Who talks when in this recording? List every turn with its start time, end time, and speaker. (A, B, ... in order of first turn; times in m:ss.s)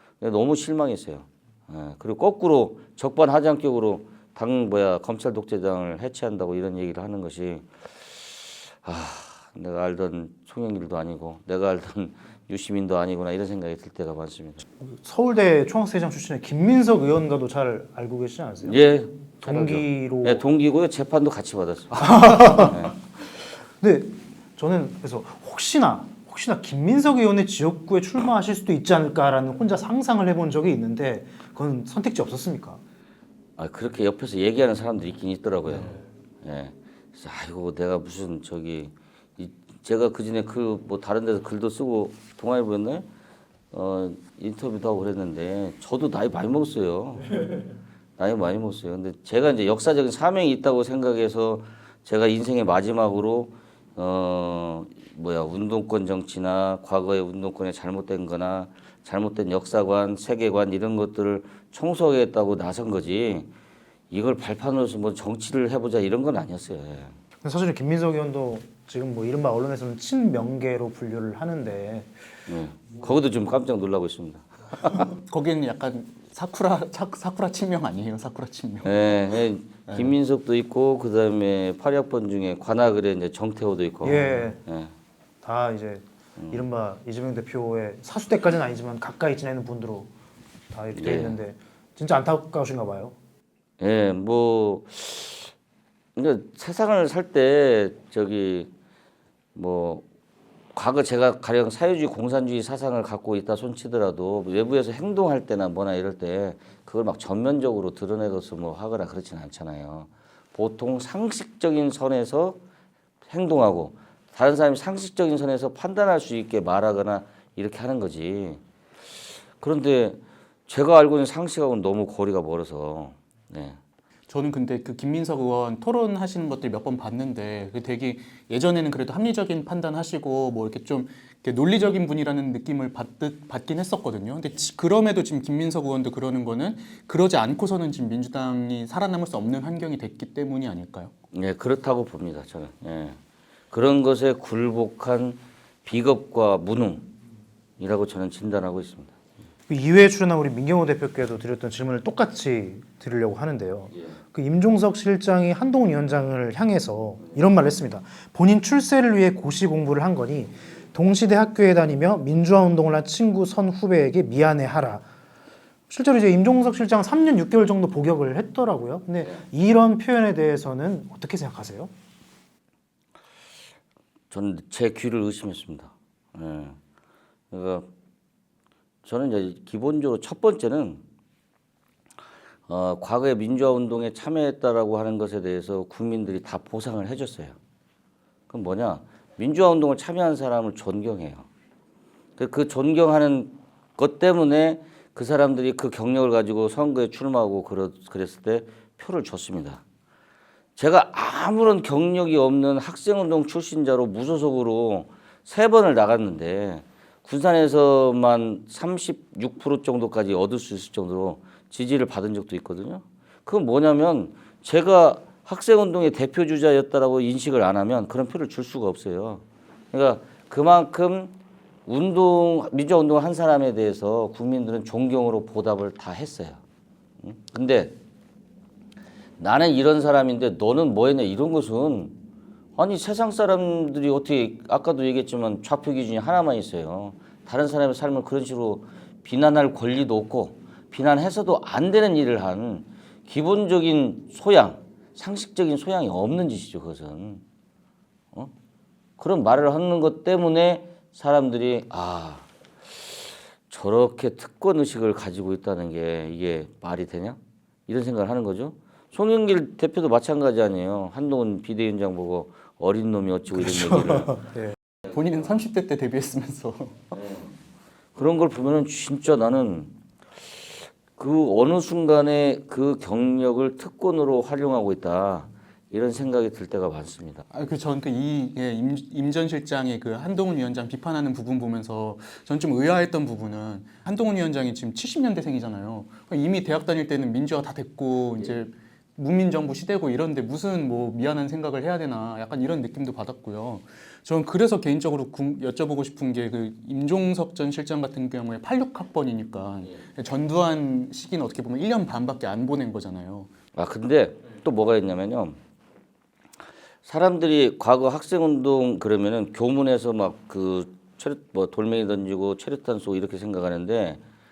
0:00.2-0:14.6 A
0:14.8-0:20.4 B
0:18.6-0:22.9 A
0:22.0-0:22.9 B
0:23.8-0:32.8 B
0:33.6-0:43.1 A
0:43.7-0:47.6 A
0:48.2-1:03.5 A
1:04.1-1:07.1 A
1:07.4-1:12.1 B
1:12.5-1:15.1 A
1:15.2-1:19.1 C
1:18.8-1:24.9 A
1:19.9-1:20.1 C
1:24.0-1:24.6 B
1:25.4-1:30.1 B
1:30.7-1:33.2 B
1:30.9-1:31.4 A
1:33.8-1:35.5 A
1:36.2-1:38.7 A
1:39.5-1:40.0 A
1:40.7-1:52.6 A
1:53.3-1:58.6 A
1:59.6-2:03.8 A
2:04.3-2:21.1 C
2:21.3-2:23.2 A
2:23.7-2:27.1 A
2:27.8-2:29.1 A
2:29.7-2:45.0 B
2:45.9-2:51.9 B
2:54.3-2:56.8 A
2:57.5-2:57.9 A
2:59.0-3:01.0 A
3:02.7-3:07.6 A
3:08.5-3:11.5 A
3:12.4-3:19.8 A
3:20.8-3:41.4 A
3:41.9-3:46.6 A
3:47.2-3:47.9 A
3:49.4-3:52.2 A
3:52.8-4:07.4 A
4:09.2-4:24.4 A
4:24.4-4:27.2 C
4:28.1-4:29.9 A
4:31.1-4:37.4 A
4:37.5-5:03.5 C
5:03.7-5:05.6 A
5:07.0-5:14.2 A